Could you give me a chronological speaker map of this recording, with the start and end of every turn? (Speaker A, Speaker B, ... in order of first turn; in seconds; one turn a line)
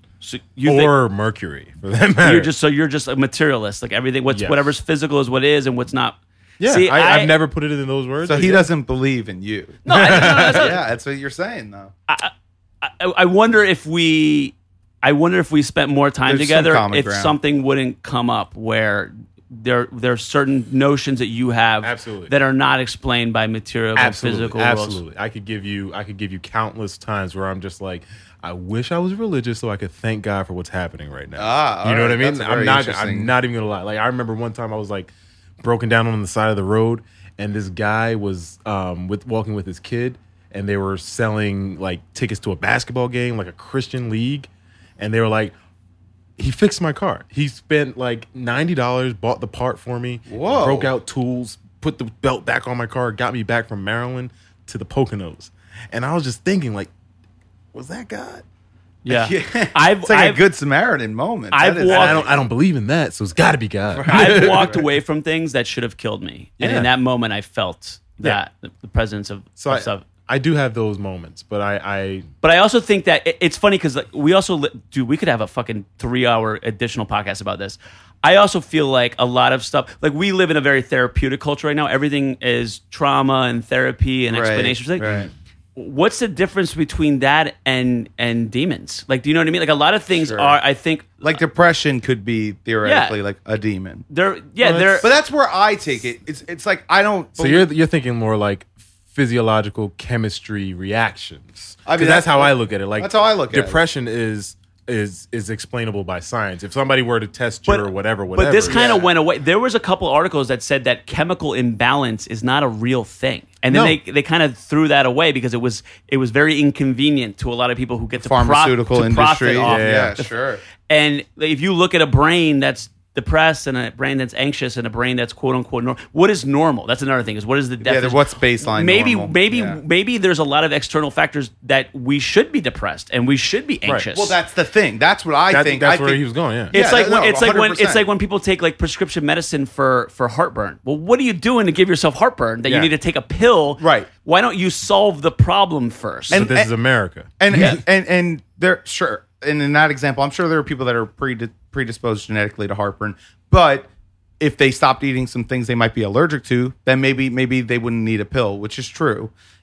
Speaker A: 0.2-0.9
Speaker B: 0.7-2.5
Speaker A: 2.2-7.3
Speaker B: 4.3-4.8
Speaker B: 6.6-8.7
Speaker C: 8.2-11.9
Speaker A: 9.8-10.8
Speaker B: 9.9-10.7
Speaker A: 12.1-25.0
Speaker C: 16.3-17.4
Speaker B: 21.8-22.3
Speaker B: 24.0-45.5
Speaker C: 31.4-33.3
Speaker B: 46.4-56.9
Speaker C: 50.3-50.9
Speaker B: 57.7-58.4
Speaker A: 59.0-60.4
Speaker C: 59.1-62.4
Speaker A: 61.5-62.3
Speaker B: 61.9-64.8
Speaker C: 63.9-64.8
Speaker A: 64.1-70.0
Speaker B: 66.6-66.9
Speaker B: 69.6-72.3
Speaker A: 72.4-85.1
Speaker C: 84.3-85.3
Speaker A: 85.8-91.4
Speaker C: 90.2-90.6
Speaker C: 91.2-94.0
Speaker A: 92.8-93.2
Speaker A: 94.1-95.1
Speaker B: 94.6-95.1
Speaker C: 95.0-97.7
Speaker B: 97.4-109.0
Speaker C: 101.9-103.8
Speaker A: 107.7-134.4
Speaker C: 108.7-109.1
Speaker B: 113.7-114.0
Speaker C: 118.2-120.6
Speaker B: 119.6-120.2
Speaker C: 127.8-129.8
Speaker C: 134.1-138.1
Speaker B: 135.5-136.7
Speaker A: 136.7-146.5
Speaker B: 142.7-142.9
Speaker C: 143.8-144.1
Speaker B: 146.3-147.8
Speaker C: 146.3-146.7
Speaker C: 147.4-153.9
Speaker A: 147.5-147.8
Speaker C: 154.4-159.3